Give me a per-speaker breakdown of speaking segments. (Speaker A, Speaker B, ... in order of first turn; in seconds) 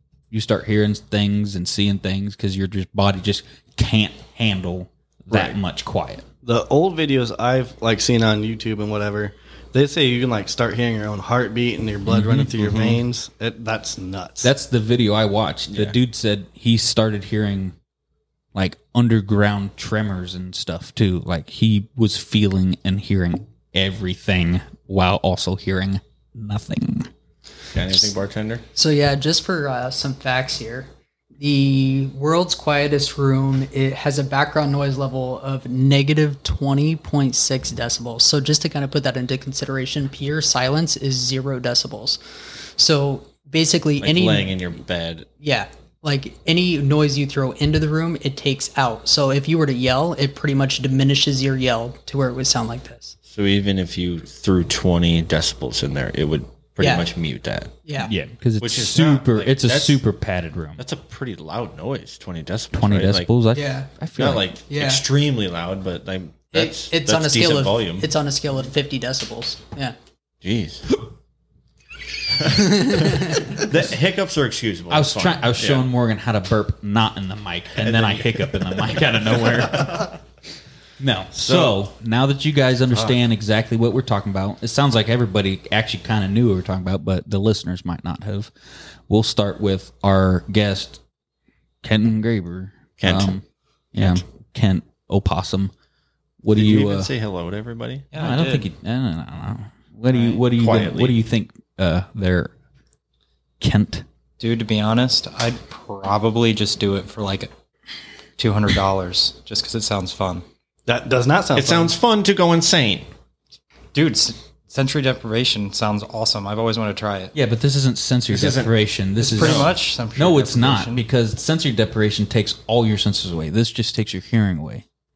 Speaker A: 0.3-6.2, 12.1-12.5, 14.4-17.8, 18.5-27.1, 58.1-60.8, 62.7-64.5, 74.9-80.1, 81.0-88.5, 89.1-91.0, 91.8-93.4, 93.9-95.7, 96.4-97.1, 98.2-102.5, 103.6-104.0, 117.3-124.8
Speaker B: 6.4-14.5, 110.9-111.9
Speaker C: 12.6-13.0, 15.7-16.0, 27.7-28.6, 44.0-45.3, 53.3-57.7, 58.6-60.0, 60.8-63.3, 64.2-68.1, 70.4-70.8, 72.4-75.9, 77.8-80.1, 81.3-81.8, 93.0-93.3, 94.0-94.2, 96.5-98.1, 100.5-101.2, 111.5-113.1, 118.3-118.7, 119.4-119.7
Speaker D: 28.8-42.2, 42.8-44.6, 45.4-53.2, 56.8-57.1, 57.9-58.1, 63.5-63.9, 64.7-65.0, 66.5-70.0, 72.7-73.5
Speaker E: 98.1-98.7, 104.4-107.5, 108.4-110.4, 113.9-117.3, 119.2-121.1